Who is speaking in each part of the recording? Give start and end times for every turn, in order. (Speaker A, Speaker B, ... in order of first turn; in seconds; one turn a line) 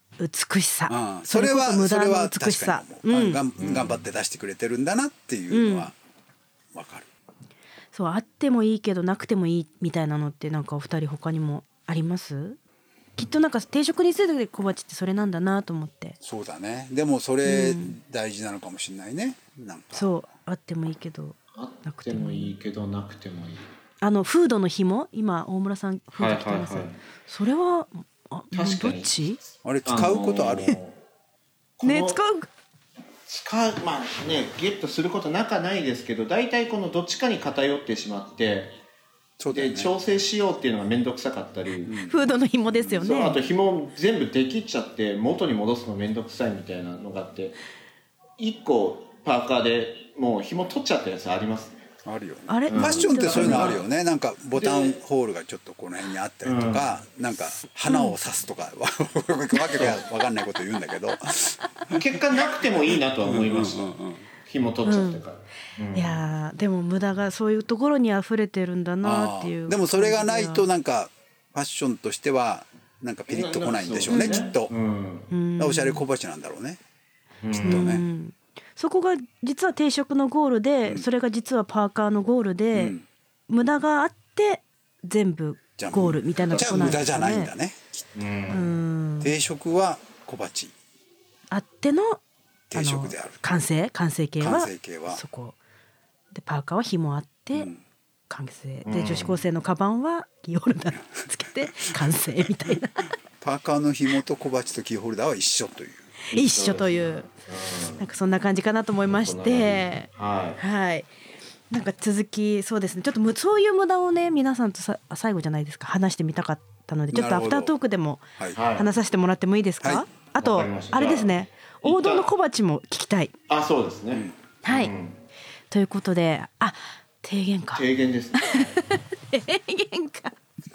Speaker A: 0.2-3.4
Speaker B: 0.9-5.9
Speaker C: 3.6-4.0
Speaker A: 5.5-5.9
Speaker B: 6.7-7.1
Speaker A: 7.9-12.6
Speaker A: 13.2-16.2
Speaker B: 16.2-20.1
Speaker A: 17.4-18.0
Speaker A: 19.9-22.5
Speaker C: 21.6-23.7
Speaker A: 24.0-29.4
Speaker C: 26.2-27.0
Speaker C: 28.5-29.1
Speaker B: 29.6-30.8
Speaker C: 29.9-31.0
Speaker C: 31.8-32.2
Speaker A: 31.8-32.5
Speaker C: 33.3-38.8
Speaker B: 39.4-39.9
Speaker C: 39.5-42.0
Speaker B: 41.9-42.1
Speaker A: 42.1-43.4
Speaker C: 43.0-47.6
Speaker C: 48.4-51.8
Speaker B: 52.0-62.0
Speaker A: 52.5-53.8
Speaker C: 52.7-53.9
Speaker C: 54.5-55.0
Speaker C: 56.4-56.9
Speaker A: 57.9-58.2
Speaker A: 59.6-59.8
Speaker C: 61.9-63.9
Speaker B: 63.2-64.2
Speaker C: 64.5-66.2
Speaker A: 64.8-65.2
Speaker A: 65.9-70.7
Speaker B: 69.0-74.7
Speaker C: 73.3-75.3
Speaker A: 74.1-74.5
Speaker A: 75.3-76.0
Speaker B: 75.6-76.8
Speaker C: 77.4-77.9
Speaker B: 77.5-78.0
Speaker A: 77.6-83.0
Speaker B: 82.7-83.0
Speaker A: 83.5-87.5
Speaker B: 85.8-88.1
Speaker C: 86.4-87.0
Speaker C: 88.2-88.7
Speaker A: 88.5-89.3
Speaker B: 89.2-90.7
Speaker A: 91.5-92.2
Speaker B: 92.7-93.5
Speaker A: 92.7-95.6
Speaker B: 94.4-95.2
Speaker A: 96.3-97.7
Speaker B: 97.5-97.8
Speaker A: 98.3-103.1
Speaker C: 98.8-99.5
Speaker B: 103.4-106.1
Speaker A: 106.3-107.3
Speaker C: 106.3-108.0
Speaker A: 108.0-111.1
Speaker C: 109.1-110.6
Speaker A: 111.7-123.3
Speaker B: 117.1-117.7
Speaker C: 118.5-118.9
Speaker C: 120.4-122.3
Speaker C: 123.5-125.2
Speaker A: 124.7-124.9
Speaker A: 125.7-130.4
Speaker C: 127.8-128.8